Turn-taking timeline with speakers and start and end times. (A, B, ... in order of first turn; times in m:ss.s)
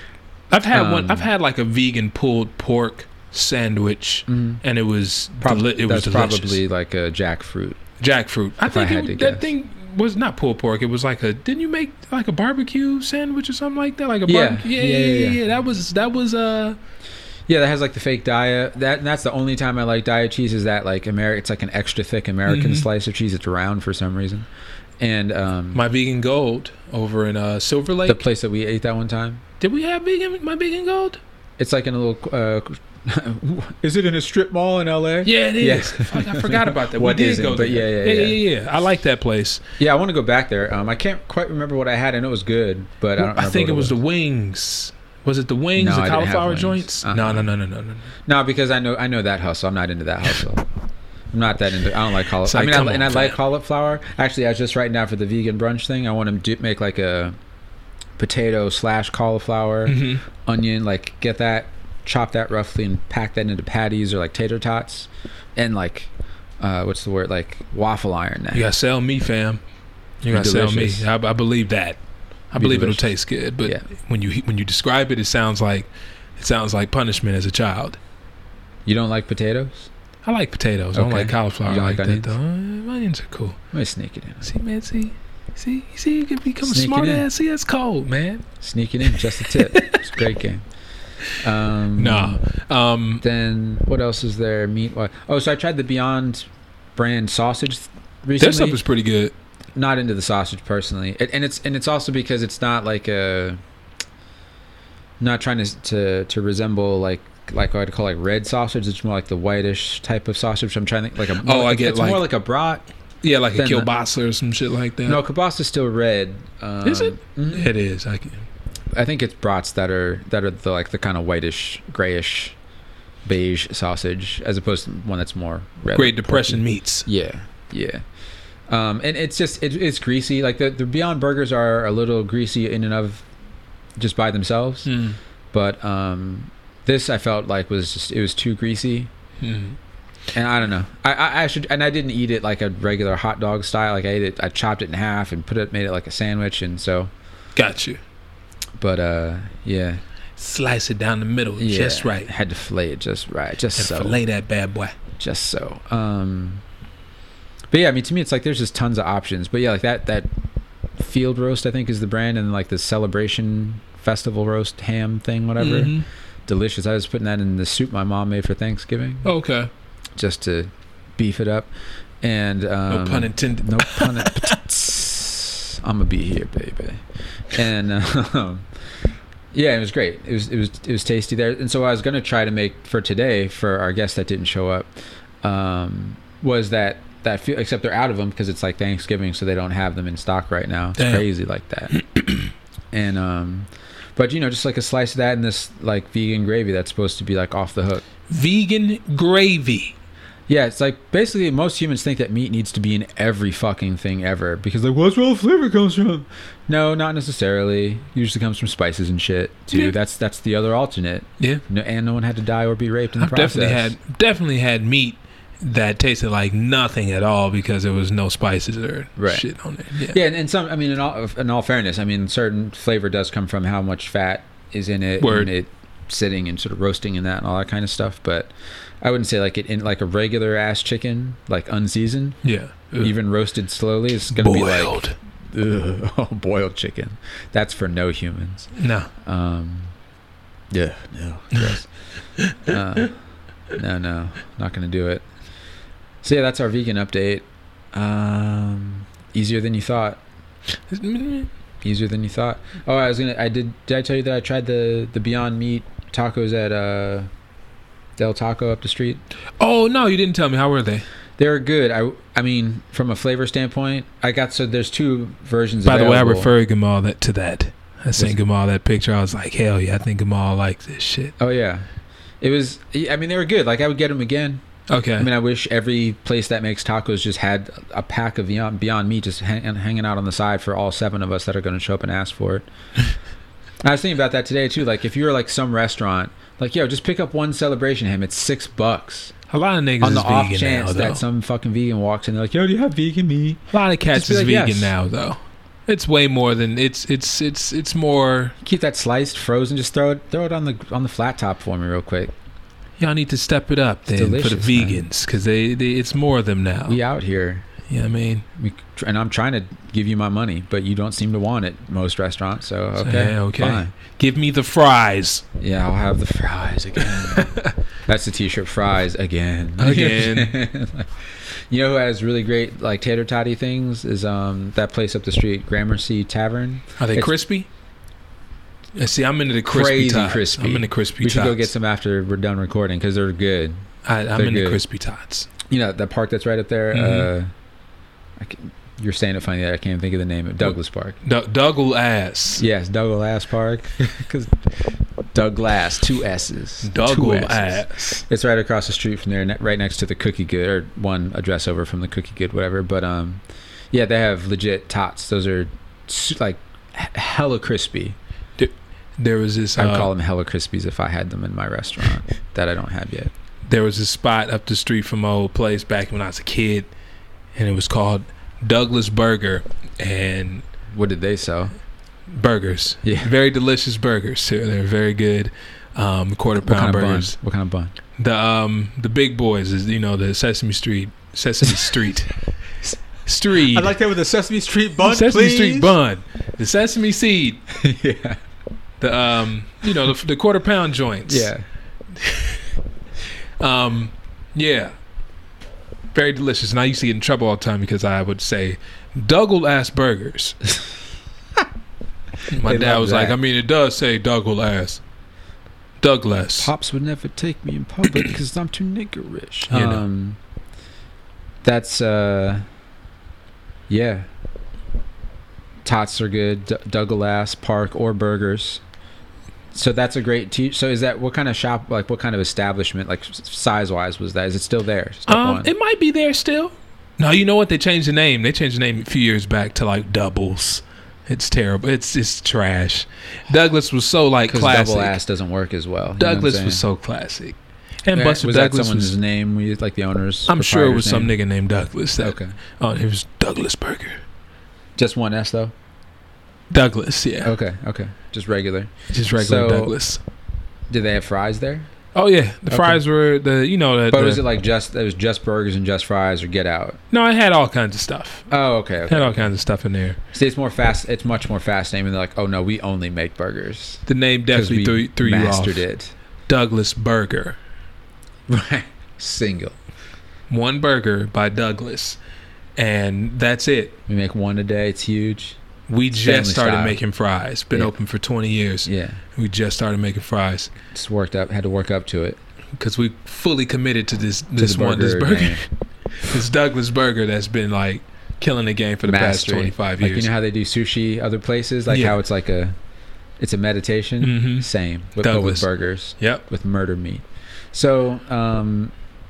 0:00.5-0:06.6 A
0:00.7-0:01.3 B
0:04.3-0:04.6 B
0:05.4-0:07.8 B
0:08.0-0:16.8 A
0:08.6-0:09.5 B
0:14.3-0:15.4 B
0:17.5-0:24.5 B
0:22.5-0:22.9 A
0:25.0-0:25.8 B
0:25.7-0:28.2 A
0:28.0-0:29.4 B
0:29.6-0:31.2 A
0:31.6-0:38.4 B
0:35.2-0:39.6 A
0:39.8-0:44.0 B
0:43.2-0:48.1 A
0:45.8-0:47.5 B
0:48.2-0:50.6 B
0:51.3-0:57.3 B
0:52.3-0:53.4 A
0:58.2-1:08.6 B
0:59.8-1:00.2 A
1:08.5-1:09.6 A
1:10.2-1:12.0 A
1:10.3-1:11.1 B
1:12.5-1:18.0 A
1:12.6-1:13.8 B
1:18.8-1:19.9 B
1:20.2-1:23.6 A
1:20.9-1:22.4 B
1:23.7-1:24.5 B
1:24.4-1:28.4 A
1:26.6-1:27.2 B
1:28.6-1:30.6 B
1:29.1-1:30.0 A
1:31.4-1:32.4 B
1:32.0-1:33.2 A
1:33.2-1:38.8 B
1:38.4-1:39.3 A
1:39.8-1:43.6 B
1:45.2-1:52.8 B
1:51.3-1:52.2 A
1:53.2-1:55.2 A
1:53.6-1:53.9 B
1:55.0-1:57.7 B
1:56.8-1:58.4 A
1:58.9-2:02.6 B
2:03.2-2:08.0 B
2:05.9-2:07.1 A
2:08.7-2:13.2 B
2:14.0-2:14.9 B
2:14.8-2:15.2 A
2:15.5-2:19.1 B
2:19.4-2:19.8 A
2:20.3-2:27.1 B
2:27.5-2:28.0 A
2:28.8-2:30.0 B
2:30.4-2:32.3 A
2:31.6-2:34.2 B
2:33.8-2:35.0 A
2:35.2-2:36.6 B
2:37.7-2:40.3 B
2:41.0-2:49.3 B
2:45.6-2:46.0 A
2:49.2-2:49.7 A
2:50.2-2:51.7 B
2:52.2-2:58.6 B
2:52.9-2:54.6 A
2:59.5-3:04.9 B
3:05.4-3:12.0 B
3:11.0-3:11.2 A
3:11.9-3:12.5 A
3:12.9-3:18.0 B
3:18.3-3:20.0 A
3:20.5-3:33.9 B
3:33.2-3:40.2 A
3:39.2-3:39.5 B
3:40.0-3:52.4 B
3:45.2-3:45.5 A
3:52.4-3:53.1 A
3:53.0-3:58.7 B
3:54.3-3:55.1 A
3:58.8-3:59.1 A
3:59.2-3:59.9 B
4:00.7-4:01.9 B
4:02.4-4:02.8 A
4:02.6-4:03.2 B
4:03.7-4:05.2 B
4:06.2-4:10.2 B
4:10.9-4:11.5 A
4:11.8-4:17.3 B
4:18.2-4:19.2 B
4:19.6-4:21.0 A
4:21.4-4:26.5 B
4:25.8-4:31.3 A
4:31.4-4:31.8 B
4:32.4-4:34.6 B
4:34.9-4:35.3 A
4:35.2-4:42.7 B
4:43.8-4:49.3 B
4:49.5-4:51.2 A
4:50.0-4:54.9 B
4:53.7-4:58.5 A
4:58.6-5:02.3 B
5:03.0-5:07.0 A
5:04.1-5:05.0 B
5:06.9-5:07.7 B
5:07.8-5:08.4 A
5:08.6-5:13.9 B
5:13.0-5:15.4 A
5:15.6-5:27.3 B
5:17.0-5:17.7 A
5:19.8-5:20.5 A
5:27.0-5:27.7 A
5:28.9-5:31.7 A
5:29.7-5:34.8 B
5:34.0-5:35.5 A
5:35.7-5:37.5 B
5:36.9-5:37.3 A
5:38.4-5:41.2 B
5:40.7-5:42.6 A
5:42.6-5:58.2 B
5:46.8-5:48.2 A
5:58.6-6:00.1 A
5:59.8-6:03.3 B
6:03.7-6:06.9 A
6:07.5-6:10.6 A
6:10.9-6:11.7 B
6:12.3-6:17.3 A
6:13.0-6:13.3 B
6:16.6-6:17.9 B
6:18.2-6:22.3 A
6:23.2-6:23.9 A
6:23.6-6:25.9 B
6:25.0-6:27.6 A
6:27.7-6:28.4 B
6:29.0-6:31.5 A
6:31.3-6:31.6 B
6:32.2-6:32.6 A
6:33.6-6:34.9 A
6:36.1-6:40.6 A
6:42.5-6:45.0 A
6:42.5-6:43.4 B
6:46.0-6:46.7 A
6:46.6-6:50.4 B
6:49.7-6:50.0 A
6:51.6-6:52.6 B
6:53.9-6:54.3 B
6:55.8-6:58.8 B
6:59.7-7:05.7 B
7:05.3-7:15.2 A
7:14.5-7:16.8 B
7:16.2-7:19.2 A
7:18.1-7:21.3 B
7:20.5-7:24.2 A
7:22.2-7:22.6 B
7:25.0-7:25.7 B
7:26.7-7:27.5 A
7:27.4-7:30.0 B
7:29.1-7:30.2 A
7:30.9-7:31.9 B
7:32.1-7:34.4 A
7:32.7-7:33.0 B
7:34.1-7:37.0 B
7:37.1-7:38.5 A
7:38.5-7:39.5 B
7:39.1-7:40.2 A
7:40.3-7:46.1 B
7:44.1-7:45.8 A
7:46.5-7:47.6 A
7:48.5-7:49.8 B
7:50.5-7:52.2 A
7:52.8-7:54.0 A
7:54.1-7:55.6 B
7:55.9-8:00.7 A
7:56.2-7:57.0 B
7:58.8-7:59.2 B
8:00.9-8:02.4 B
8:02.8-8:05.7 A
8:04.6-8:05.6 B
8:06.2-8:10.3 A
8:09.0-8:12.7 B
8:11.9-8:12.2 A
8:13.4-8:18.9 B
8:14.2-8:14.7 A
8:15.2-8:15.7 A